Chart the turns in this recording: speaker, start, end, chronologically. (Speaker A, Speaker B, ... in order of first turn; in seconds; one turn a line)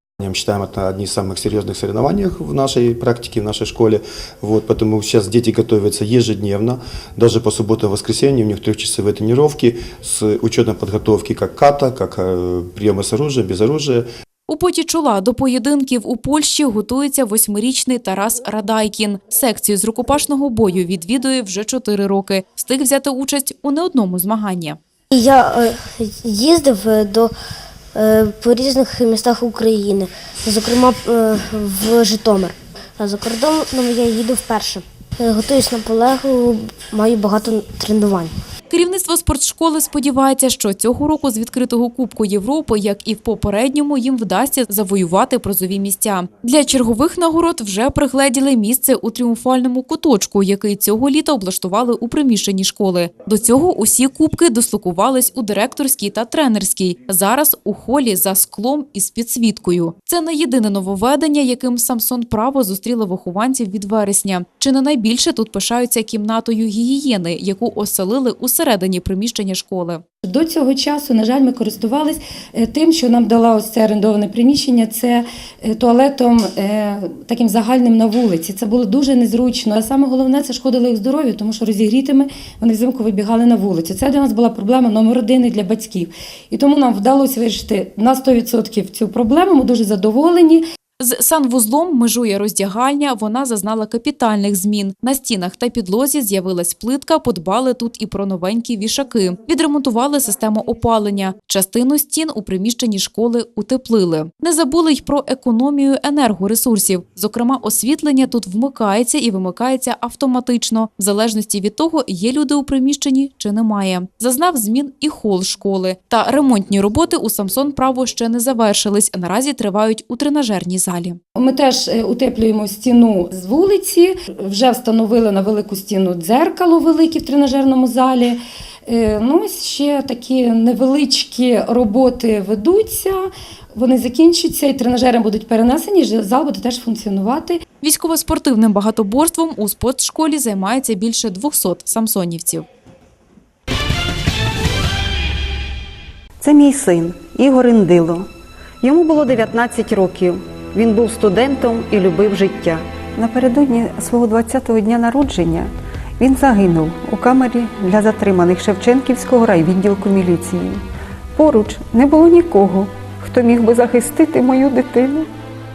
Speaker A: 0.2-14.1
Speaker B: 14.5-24.8
Speaker C: 25.1-27.3
Speaker C: 27.9-38.3
Speaker B: 38.7-70.0
Speaker D: 70.2-90.6
Speaker B: 91.0-121.2
Speaker D: 121.4-137.6
Speaker B: 137.8-142.7
Speaker E: 146.4-148.3
Speaker E: 148.8-160.8
Speaker E: 161.3-165.3